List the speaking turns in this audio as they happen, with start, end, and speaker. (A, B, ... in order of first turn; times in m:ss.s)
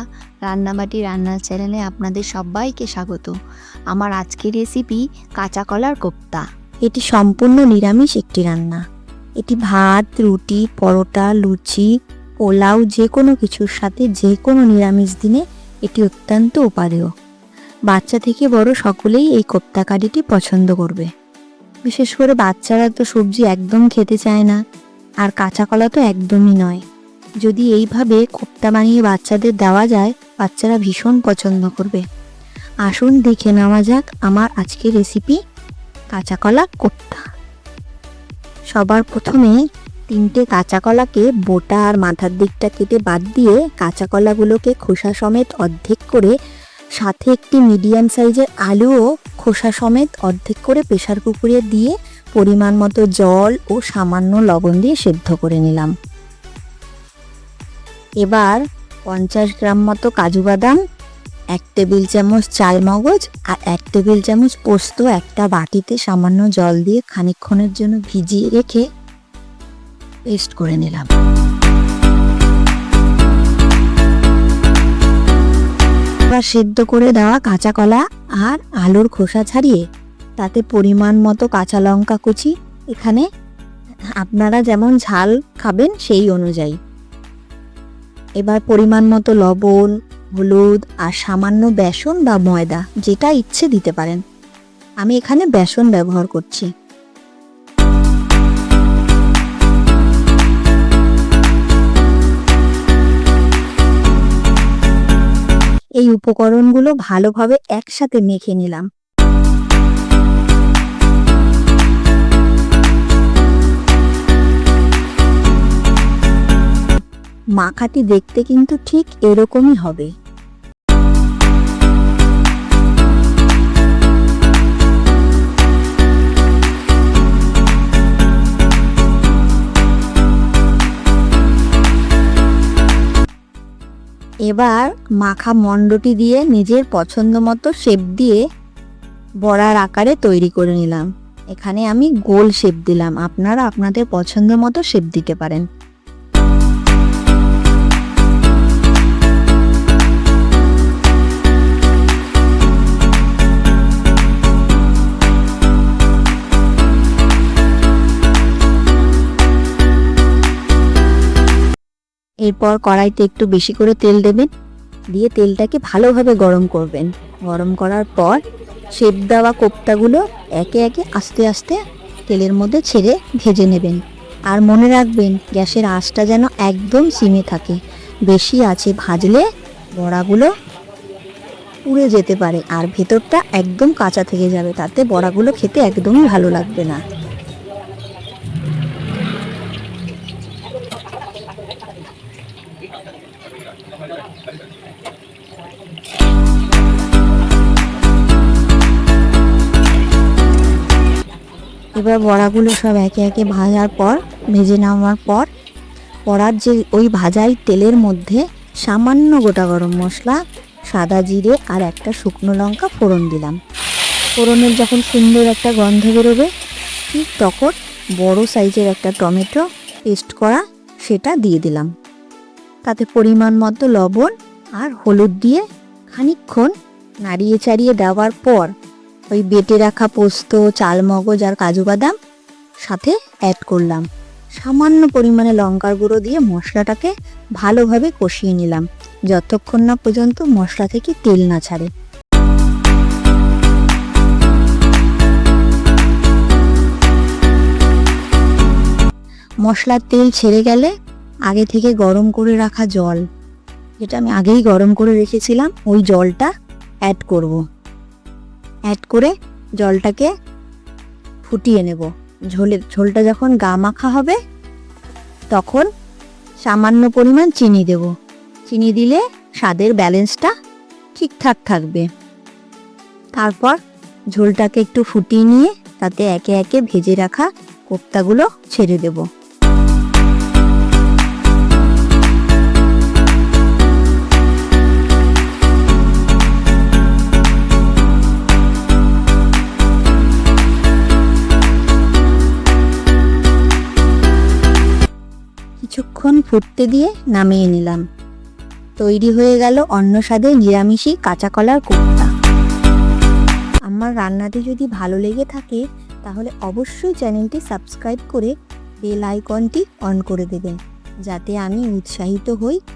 0:00.4-0:03.3 A
0:03.9-0:08.8 A
0:09.4-0:11.9 A
0:12.4-0:17.1 A
0:17.9-0:21.1 A
0:21.9-0:24.6 A
0:25.2-0:26.8 A
0:27.4-0:32.0 A
0:32.8-0:35.4 A
0:36.1-0:37.2 A
0:38.7-0:39.5 A
0:40.1-0:46.3 A
0:47.0-0:55.9 A
0:58.2-1:00.8 A
1:01.5-1:08.8 A
1:10.3-1:11.1 A
1:16.3-1:19.8 A
1:20.4-1:23.2 A
1:24.2-1:26.8 A
1:28.4-1:34.2 A
1:35.0-1:36.7 A
1:46.0-1:48.8 A
1:57.6-2:00.1 A
2:14.5-2:18.4 A
2:19.4-2:25.6 A
2:42.4-2:44.5 A
2:45.1-2:48.4 A
2:49.0-2:57.8 A
2:58.3-2:59.4 A
3:00.0-3:00.5 A
3:01.9-3:07.0 A
3:22.0-3:25.5 A
3:26.3-3:30.4 A
3:30.9-3:33.6 A
3:34.4-3:36.5 A
3:37.1-3:41.9 A
3:42.8-3:46.7 A
3:47.2-3:48.7 A
3:49.3-3:52.1 A
3:52.8-3:54.0 A
3:54.6-4:01.9 A
4:09.6-4:10.9 A
4:11.5-4:13.2 A
4:14.0-4:16.5 A
4:17.1-4:17.6 A
4:18.9-4:20.3 A
4:21.4-4:24.4 A
4:25.5-4:25.9 A
4:26.6-4:28.1 A
4:28.7-4:30.5 A
4:31.2-4:32.0 A
4:33.4-4:33.8 A
4:34.3-4:39.2 A
4:55.8-4:58.0 A
4:59.0-5:02.3 A
5:03.9-5:08.5 A
5:09.0-5:10.8 A
5:11.3-5:12.8 A